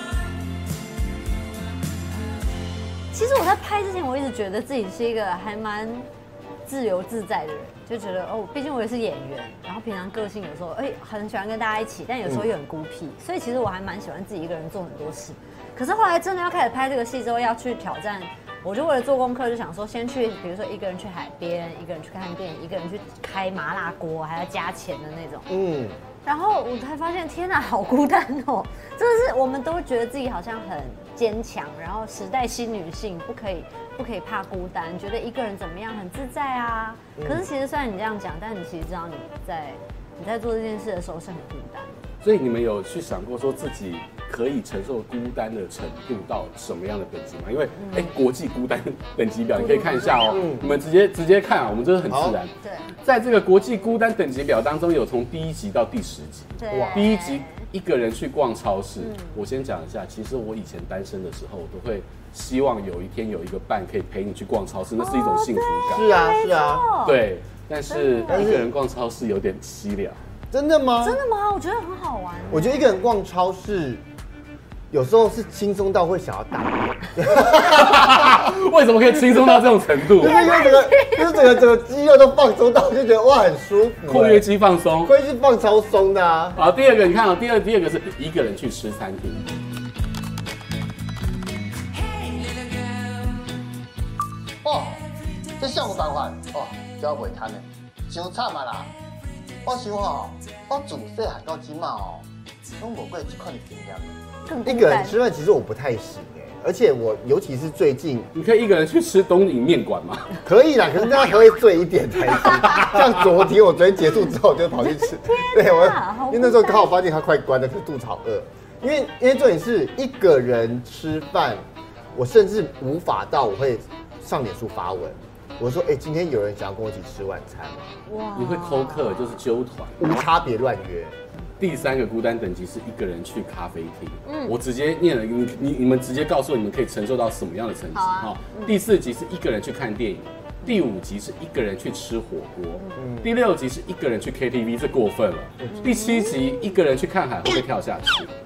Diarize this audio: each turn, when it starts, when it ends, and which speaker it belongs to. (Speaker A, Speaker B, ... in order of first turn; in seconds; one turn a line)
Speaker A: 3.1-6.1
Speaker A: 6.7-25.5
Speaker B: 25.5-26.0
Speaker A: 26.2-42.1
Speaker B: 37.2-37.5
Speaker C: 42.2-52.5
Speaker A: 47.8-48.1
Speaker A: 49.5-50.5
Speaker B: 50.3-50.7
Speaker B: 52.1-52.4
Speaker A: 52.6-52.9
Speaker C: 53.0-66.1
Speaker A: 56.6-57.7
Speaker B: 56.7-57.1
Speaker A: 59.0-59.4
Speaker A: 65.0-67.2
Speaker B: 65.9-66.8
Speaker C: 67.0-70.2
Speaker A: 67.9-68.6
Speaker B: 68.3-68.7
Speaker B: 70.5-71.2
Speaker A: 71.0-72.9
Speaker B: 72.5-74.0
Speaker B: 74.9-78.2
Speaker C: 77.5-80.3
Speaker B: 80.2-84.4
Speaker A: 80.2-81.6
Speaker C: 84.0-85.1
Speaker B: 85.0-86.6
Speaker C: 86.5-89.5
Speaker B: 94.6-95.0
Speaker B: 95.6-98.9
Speaker B: 99.6-102.2
Speaker B: 102.8-108.3
Speaker A: 104.5-105.2
Speaker C: 108.3-110.3
Speaker B: 110.4-128.0
Speaker A: 114.8-117.0
Speaker A: 128.1-129.4
Speaker C: 128.3-130.2
Speaker B: 130.0-131.2
Speaker C: 131.6-148.3
Speaker A: 134.2-134.5
Speaker A: 137.9-138.8
Speaker B: 143.0-143.3
Speaker A: 145.7-146.7